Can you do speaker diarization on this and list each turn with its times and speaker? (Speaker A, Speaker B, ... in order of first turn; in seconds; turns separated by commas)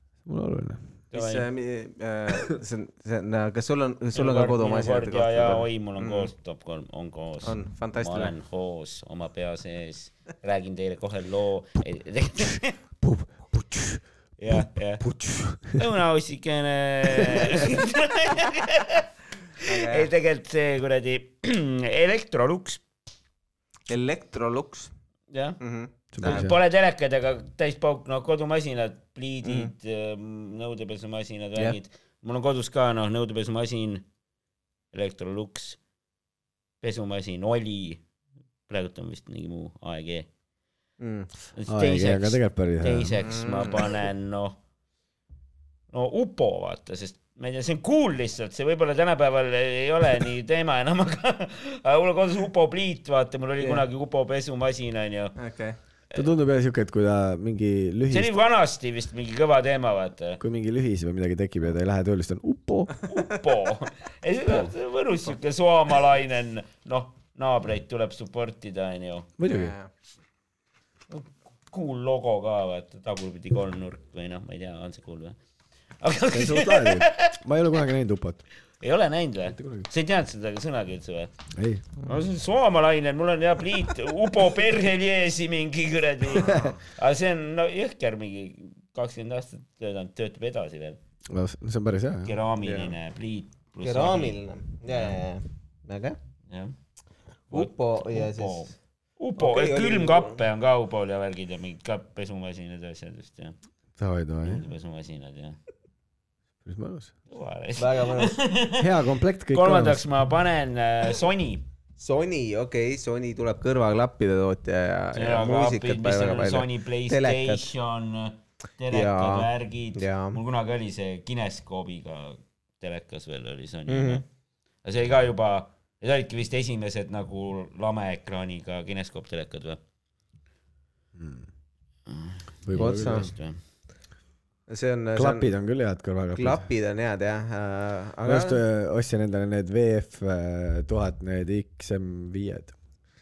Speaker A: 0.2-0.9, Speaker B: 1.1-1.5, Speaker C: 1.1-6.3, Speaker B: 4.2-12.8, Speaker C: 7.4-8.3, Speaker A: 13.0-15.8, Speaker B: 14.4-15.0, Speaker B: 15.7-19.1, Speaker C: 17.2-17.7, Speaker B: 19.6-22.8, Speaker C: 19.6-20.1, Speaker C: 23.9-24.9, Speaker B: 25.3-25.6, Speaker C: 25.6-26.5, Speaker A: 26.1-26.6, Speaker B: 26.2-34.0, Speaker C: 29.4-29.7, Speaker B: 34.9-35.8, Speaker B: 36.8-38.0, Speaker B: 38.7-40.3, Speaker C: 41.0-41.3, Speaker B: 41.6-44.6, Speaker A: 41.7-43.2, Speaker C: 43.2-44.1, Speaker B: 45.9-55.4, Speaker C: 53.6-53.9, Speaker C: 55.4-55.8, Speaker A: 56.1-58.3, Speaker B: 58.1-60.4, Speaker A: 60.4-63.0, Speaker C: 63.0-63.4, Speaker B: 63.1-69.3, Speaker A: 69.4-69.8, Speaker C: 69.5-69.9, Speaker B: 71.1-75.4, Speaker B: 76.0-77.3, Speaker A: 76.3-78.4, Speaker B: 78.8-81.3, Speaker A: 79.5-79.9, Speaker A: 81.5-81.9, Speaker B: 82.0-91.0, Speaker C: 86.3-86.8, Speaker A: 91.3-92.3, Speaker B: 92.3-94.4, Speaker C: 92.6-93.0, Speaker C: 93.8-96.2, Speaker B: 94.9-95.2, Speaker B: 96.5-96.8, Speaker C: 97.5-98.7, Speaker B: 97.5-103.6, Speaker C: 99.4-100.4, Speaker A: 104.0-104.7, Speaker B: 104.4-105.6, Speaker A: 106.7-107.1, Speaker B: 107.3-108.9, Speaker C: 107.8-108.4, Speaker A: 108.8-110.0, Speaker B: 109.5-111.7, Speaker C: 112.0-117.7, Speaker B: 115.2-124.2, Speaker C: 118.9-120.4, Speaker C: 123.9-124.2, Speaker B: 124.8-129.8, Speaker A: 131.2-131.5, Speaker B: 132.1-133.6, Speaker A: 132.7-133.3, Speaker C: 132.7-133.3, Speaker C: 134.7-135.5, Speaker A: 135.2-136.7, Speaker C: 136.3-138.6, Speaker A: 138.2-142.8